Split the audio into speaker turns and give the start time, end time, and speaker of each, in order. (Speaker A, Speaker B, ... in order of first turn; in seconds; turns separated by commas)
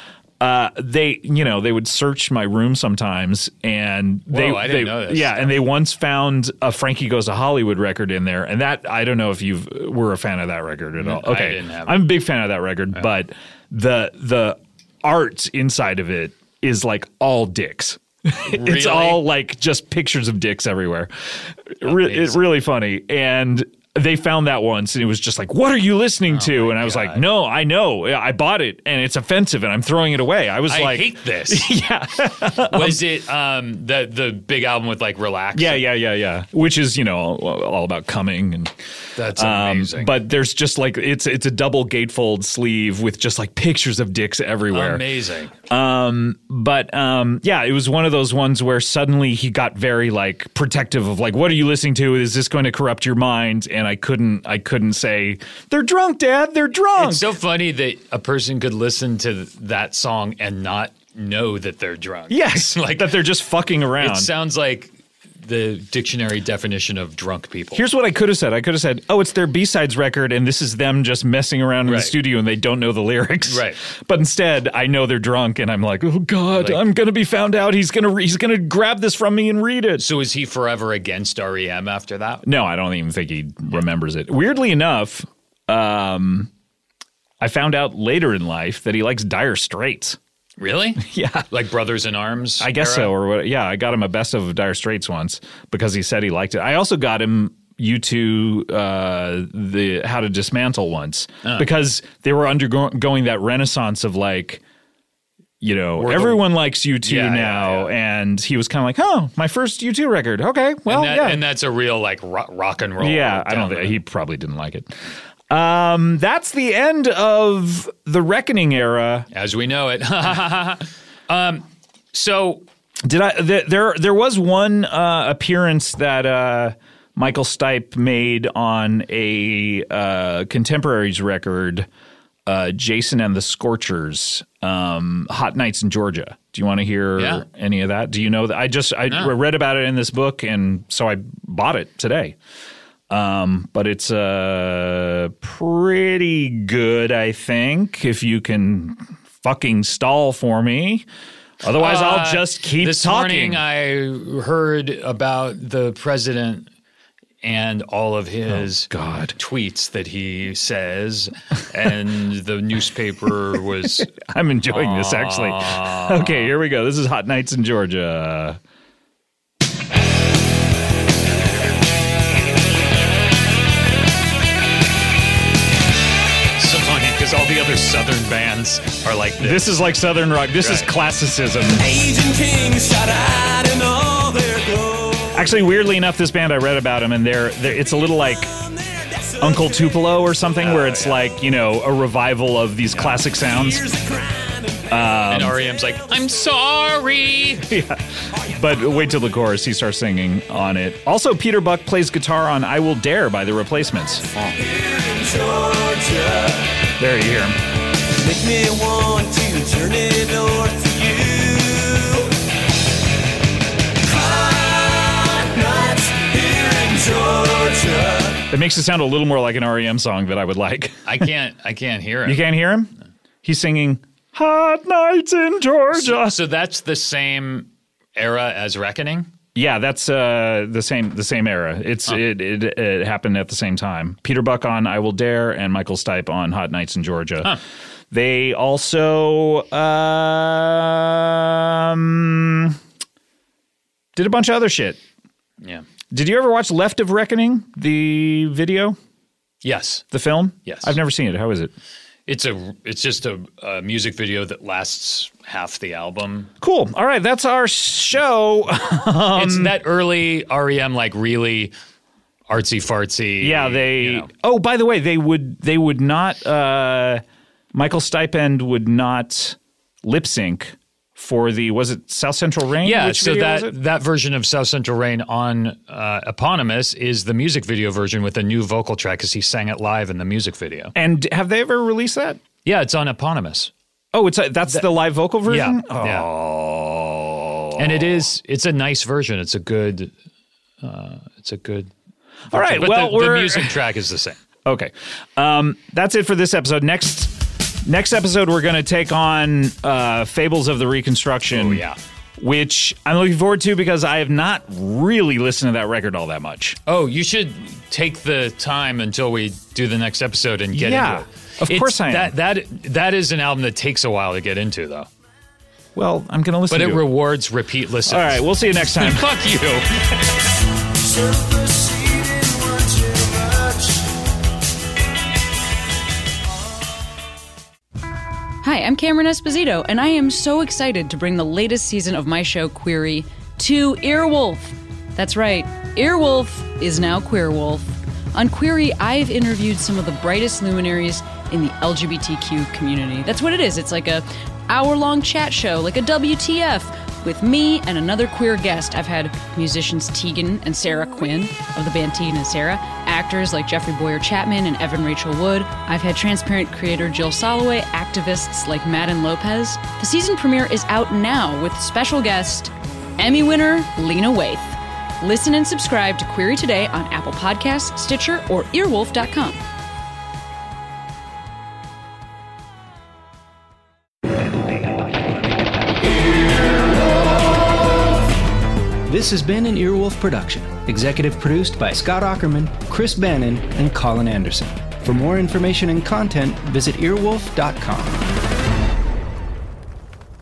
Speaker A: 0.4-33.0, Speaker B: 4.3-5.6, Speaker B: 11.0-12.1, Speaker B: 18.5-19.2, Speaker B: 21.8-22.4, Speaker B: 26.3-27.2, Speaker B: 30.7-31.7, Speaker B: 32.6-35.9, Speaker A: 35.5-38.7, Speaker B: 39.2-40.2, Speaker A: 39.3-45.0, Speaker B: 44.7-45.5, Speaker A: 45.7-57.3, Speaker B: 57.0-63.2, Speaker A: 62.3-64.3, Speaker B: 64.0-67.8, Speaker A: 67.7-80.0, Speaker B: 71.8-72.2, Speaker B: 73.5-73.8, Speaker B: 76.5-76.8, Speaker B: 80.0-82.5, Speaker A: 82.4-86.5, Speaker A: 87.4-90.2, Speaker B: 90.6-93.1, Speaker A: 91.0-91.5, Speaker A: 92.6-104.6, Speaker B: 101.4-101.7, Speaker A: 105.6-111.4, Speaker B: 106.0-107.9, Speaker B: 110.9-114.0, Speaker A: 113.0-115.0, Speaker A: 115.5-119.3, Speaker B: 119.3-122.7, Speaker A: 123.1-131.9, Speaker A: 132.5-142.4, Speaker B: 137.2-137.4, Speaker B: 139.1-139.3, Speaker A: 143.1-151.1, Speaker A: 151.6-153.6, Speaker B: 151.8-156.7, Speaker B: 157.4-164.1, Speaker A: 158.5-159.4, Speaker A: 164.0-168.6, Speaker B: 164.7-166.5, Speaker B: 176.6-179.7, Speaker A: 179.4-181.8, Speaker B: 180.6-180.9, Speaker C: 181.8-185.4, Speaker A: 185.3-188.5, Speaker C: 189.3-189.8, Speaker A: 189.4-193.9, Speaker B: 190.6-191.3, Speaker B: 192.9-193.3, Speaker C: 193.4-194.9, Speaker A: 194.9-195.6, Speaker B: 195.3-197.7, Speaker A: 197.7-204.5, Speaker C: 204.6-206.7, Speaker A: 207.0-207.6, Speaker C: 208.2-212.4, Speaker C: 214.0-218.4, Speaker A: 218.5-221.3, Speaker B: 221.1-222.5, Speaker A: 222.2-222.9, Speaker A: 223.4-226.4, Speaker B: 225.9-229.3, Speaker A: 229.6-237.6, Speaker A: 238.1-242.8, Speaker A: 244.2-245.0, Speaker A: 246.1-249.0, Speaker B: 249.6-250.1, Speaker A: 250.1-251.7, Speaker B: 250.7-250.9, Speaker B: 252.3-256.5, Speaker A: 256.6-259.8, Speaker B: 259.3-261.7, Speaker B: 262.5-264.3, Speaker A: 263.4-267.2, Speaker A: 267.7-273.8, Speaker B: 272.8-280.9, Speaker A: 280.9-282.4, Speaker B: 282.6-283.7, Speaker A: 284.1-288.2, Speaker B: 285.5-286.3, Speaker B: 287.8-290.1, Speaker B: 290.8-291.9, Speaker A: 292.5-293.8, Speaker B: 292.5-294.4, Speaker A: 294.6-297.3, Speaker A: 297.9-301.8, Speaker B: 301.5-302.0, Speaker A: 302.4-306.8, Speaker B: 306.9-315.1, Speaker A: 310.7-312.4, Speaker A: 315.9-317.1, Speaker B: 316.7-320.1, Speaker A: 318.1-319.3, Speaker C: 321.0-324.1, Speaker D: 328.6-369.6, Speaker E: 379.1-388.2